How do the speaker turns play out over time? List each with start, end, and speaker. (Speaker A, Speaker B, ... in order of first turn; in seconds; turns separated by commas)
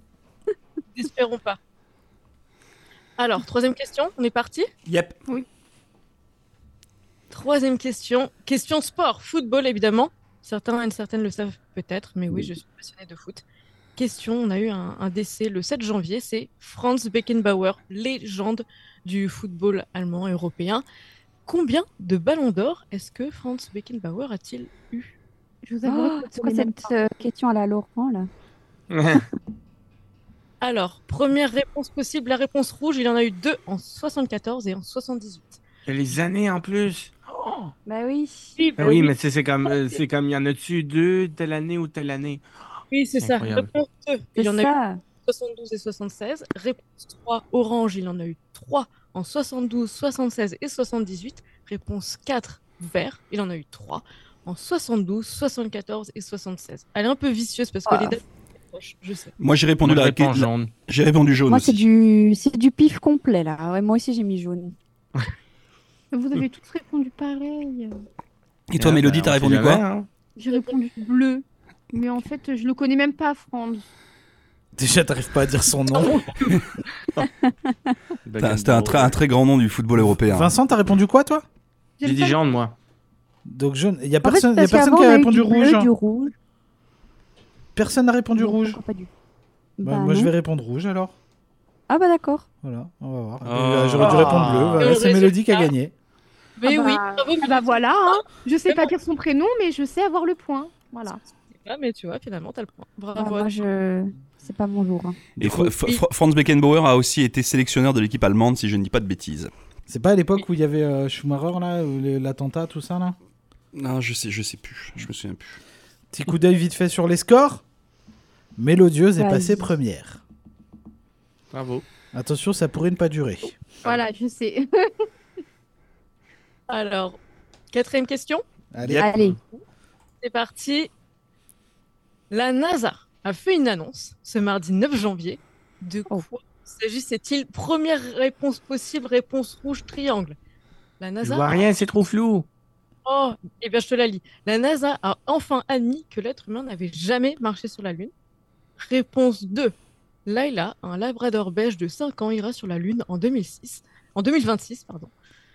Speaker A: 0.9-1.6, Speaker A: 3.2-4.7, Speaker B: 4.9-5.2, Speaker A: 7.3-13.4, Speaker A: 14.0-20.8, Speaker A: 21.5-25.1, Speaker C: 25.6-26.9, Speaker D: 25.9-28.3, Speaker E: 28.9-29.3, Speaker A: 30.6-35.6, Speaker E: 35.9-37.7, Speaker D: 37.9-38.6, Speaker A: 38.6-39.1, Speaker E: 38.8-42.4, Speaker A: 42.9-59.3, Speaker E: 43.2-43.7, Speaker D: 44.4-45.0, Speaker D: 57.9-58.2, Speaker B: 59.4-61.9, Speaker E: 59.8-60.7, Speaker D: 61.5-64.8, Speaker C: 66.1-68.0, Speaker B: 68.7-69.8, Speaker E: 68.8-70.1, Speaker C: 70.4-73.9, Speaker F: 74.8-76.4, Speaker D: 77.2-77.9, Speaker E: 78.3-79.2, Speaker B: 78.4-80.5, Speaker F: 80.2-81.5, Speaker C: 82.0-82.4, Speaker E: 82.0-82.8, Speaker F: 83.5-85.9, Speaker D: 84.2-86.3, Speaker F: 87.8-88.8, Speaker D: 88.4-89.1, Speaker D: 89.8-90.3, Speaker F: 89.8-91.2, Speaker D: 91.9-92.5, Speaker F: 92.6-95.9, Speaker B: 93.5-94.1, Speaker E: 93.7-95.0, Speaker A: 94.0-95.7, Speaker A: 96.6-98.9, Speaker C: 96.6-101.2, Speaker A: 101.5-103.5, Speaker D: 103.2-105.3, Speaker B: 105.4-109.5, Speaker F: 105.4-105.7, Speaker F: 109.9-113.2, Speaker B: 113.8-115.6, Speaker F: 116.1-117.6, Speaker F: 118.6-120.2, Speaker D: 119.2-119.7, Speaker E: 121.5-121.8, Speaker F: 122.1-123.6, Speaker C: 123.8-124.9, Speaker A: 126.7-127.2, Speaker A: 127.7-128.4, Speaker F: 128.7-129.1, Speaker D: 129.0-129.4, Speaker A: 129.4-129.6, Speaker A: 130.2-130.9, Speaker A: 132.3-140.4, Speaker A: 141.0-141.7, Speaker E: 141.2-142.5, Speaker A: 143.1-148.1, Speaker A: 148.8-149.8, Speaker A: 150.3-155.1